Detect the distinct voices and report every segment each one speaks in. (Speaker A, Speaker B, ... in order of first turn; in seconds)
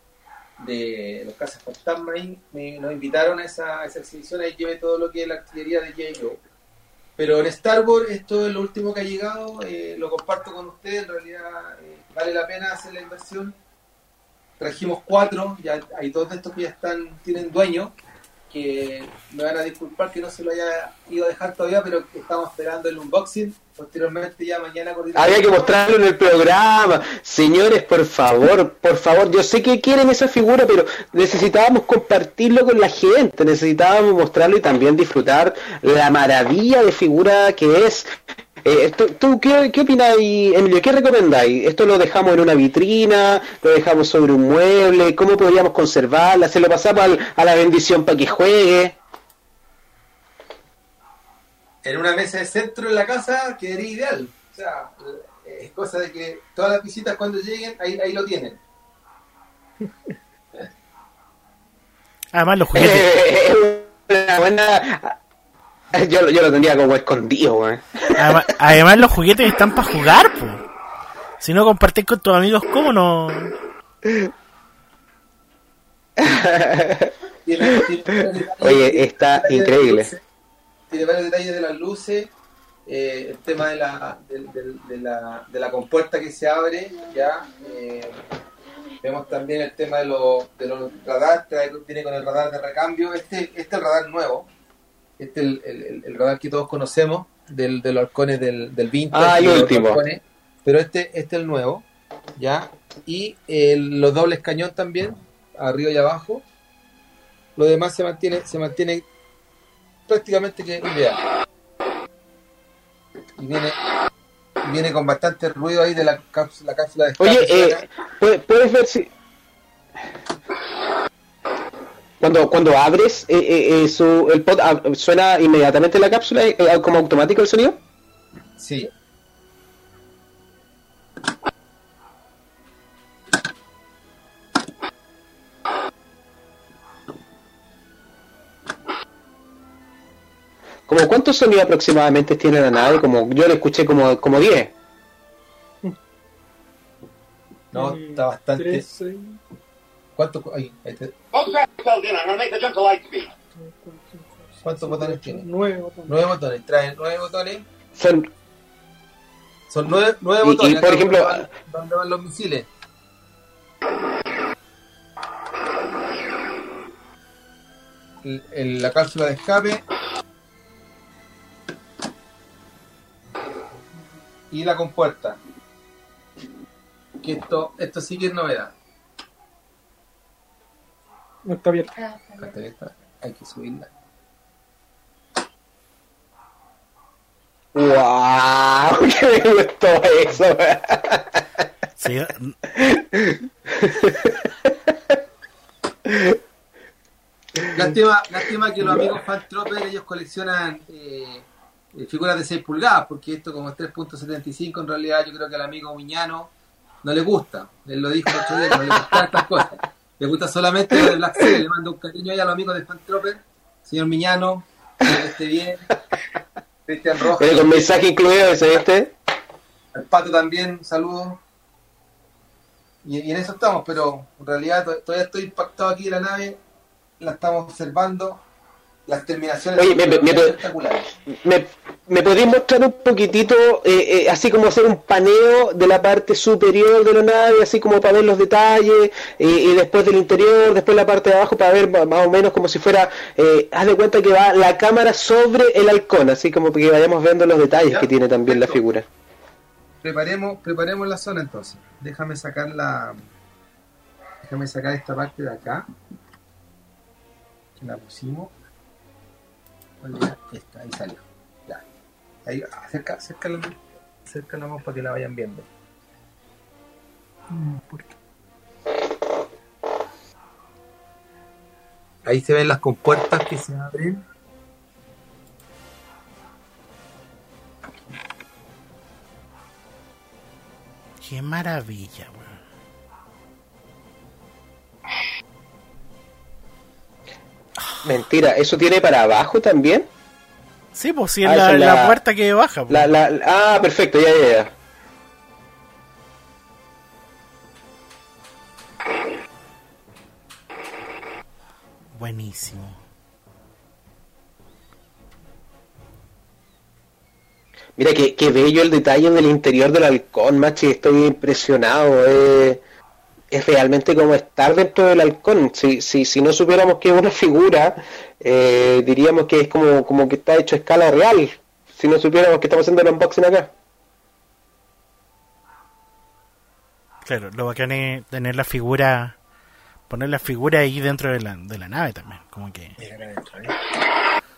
Speaker A: 0.6-6.4, 7.2-13.6, 14.6-17.9, 18.5-25.5, 51.8-58.6, 77.4-80.2, 80.9-82.3, 82.8-88.2, 89.0-94.5, 95.2-101.8, 102.3-106.5, 107.5-109.0, 110.1-111.2, 113.4-113.8, 114.6-117.8, 128.6-128.9, 147.7-148.9, 150.2-151.1, 154.6-155.5, 156.1-157.7, 159.7-162.7, 168.2-169.8, 174.5-175.4, 177.2-178.7, 182.3-183.9, 197.7-206.5, 207.0-215.9, 216.8-217.9, 219.9-221.4, 223.0-226.6, 227.2-228.4, 229.1-231.1, 247.9-248.8, 250.0-253.2, 254.4-255.9, 257.8-258.5, 260.0-261.8, 262.4-265.7, 272.2-274.2, 333.0-333.8
Speaker B: 25.1-38.1, 38.6-49.0, 62.7-65.2, 65.9-68.3, 74.0-74.3, 76.2-77.1, 77.8-80.1, 99.1-100.0, 117.2-119.1, 122.2-127.8, 140.9-144.7, 157.9-158.3, 160.4-161.5, 187.7-191.4, 192.7-195.2, 196.1-196.4, 217.4-219.1, 229.8-230.5, 231.3-249.1, 288.0-290.1, 291.4-292.2, 292.9-294.7, 308.0-312.8, 313.5-323.7
Speaker C: 62.3-63.1, 68.2-70.6, 71.4-73.5, 192.0-192.6, 281.2-282.5, 290.9-293.1, 302.1-303.0, 327.2-329.4, 330.1-332.9
Speaker D: 147.7-149.4, 153.5-156.3, 181.4-182.0
Speaker E: 151.3-153.3